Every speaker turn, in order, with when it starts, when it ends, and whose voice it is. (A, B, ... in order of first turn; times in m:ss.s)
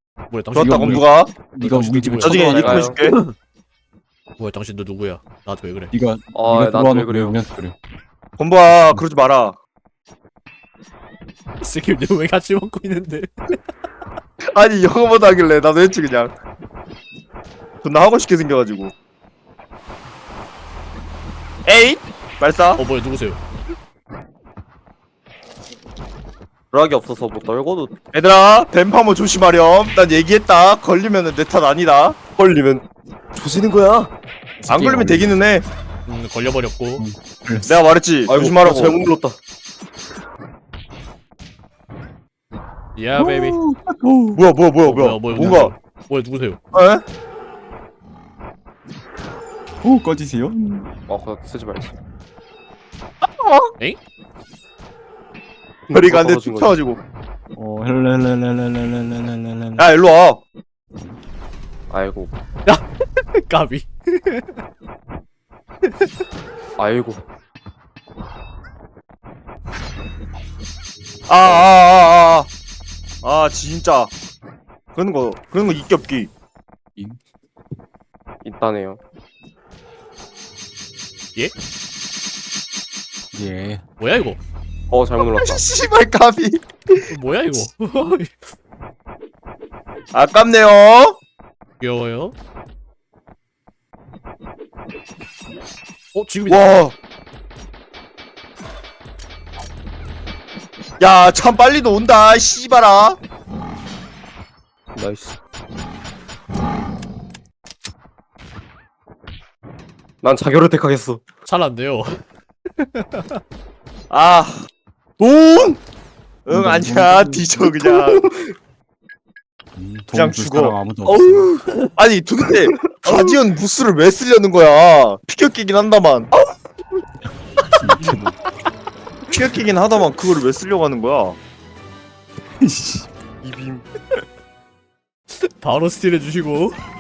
0:00.3-0:01.1 A
0:00.5-0:01.3 B
0:00.6-0:03.1 C
0:01.6-0:03.3 A
0:02.2-0:03.0 D
0:02.2-0:03.1 B
0:04.4-0:05.9 A
0:05.9-0:07.8 C
0:06.3-0:07.4 D
0:08.4-0:09.6 B
0:11.6-0:13.6 A
0:14.4-0:16.3 B
0:17.8-0:18.9 B
0:21.7-0:22.8 B
0:22.8-0:23.4 A
0:26.7-0:28.0 D
0:28.1-0:32.2 B
0:32.4-0:34.1 D
0:34.6-0:35.3 C
0:34.7-0:35.6 B
0:36.1-0:37.0 A
0:37.0-0:37.8 C
0:37.6-0:39.1 B
0:38.3-0:39.4 D
0:43.0-0:43.6 A
0:43.2-0:44.4 C
0:44.4-0:45.7 B
0:44.8-0:46.6 A
0:45.3-0:45.7 C
0:46.7-0:47.0 B
0:49.8-0:50.9 C
0:51.1-0:51.9 D
0:53.2-0:53.7 B
0:55.9-0:56.8 D
0:55.9-0:57.0 B
0:57.6-0:59.8 C
0:59.8-1:00.4 B
1:01.9-1:02.3 D
1:02.7-1:04.6 A
1:06.8-1:07.2 D
1:11.3-1:12.5 B
1:11.4-1:11.7 D
1:13.2-1:14.1 B
1:14.9-1:16.3 B
1:18.4-1:19.0 D
1:23.3-1:23.8 C
1:24.0-1:24.4 A
1:24.9-1:25.6 D
1:25.2-1:27.1 B
1:27.1-1:28.4 A
1:30.1-1:31.2 B
1:31.8-1:32.4 A
1:36.1-1:36.7 A
1:36.5-1:36.9 B
1:41.0-1:43.2 B
1:45.0-1:45.4 D
1:50.2-1:51.2 D
1:51.4-1:52.2 A
1:52.8-1:53.4 A
1:54.1-1:54.7 B
1:55.2-1:55.7 D
1:56.5-1:58.3 B
1:56.5-1:57.5 C
1:57.9-1:58.5 D
1:59.8-2:01.5 C
2:00.1-2:00.8 B
2:01.1-2:01.7 D
2:02.0-2:06.3 B
2:07.7-2:08.4 C
2:07.8-2:08.2 A
2:09.3-2:11.4 B
2:12.6-2:13.1 C
2:13.4-2:13.8 B
2:13.4-2:13.8 D
2:15.4-2:16.8 A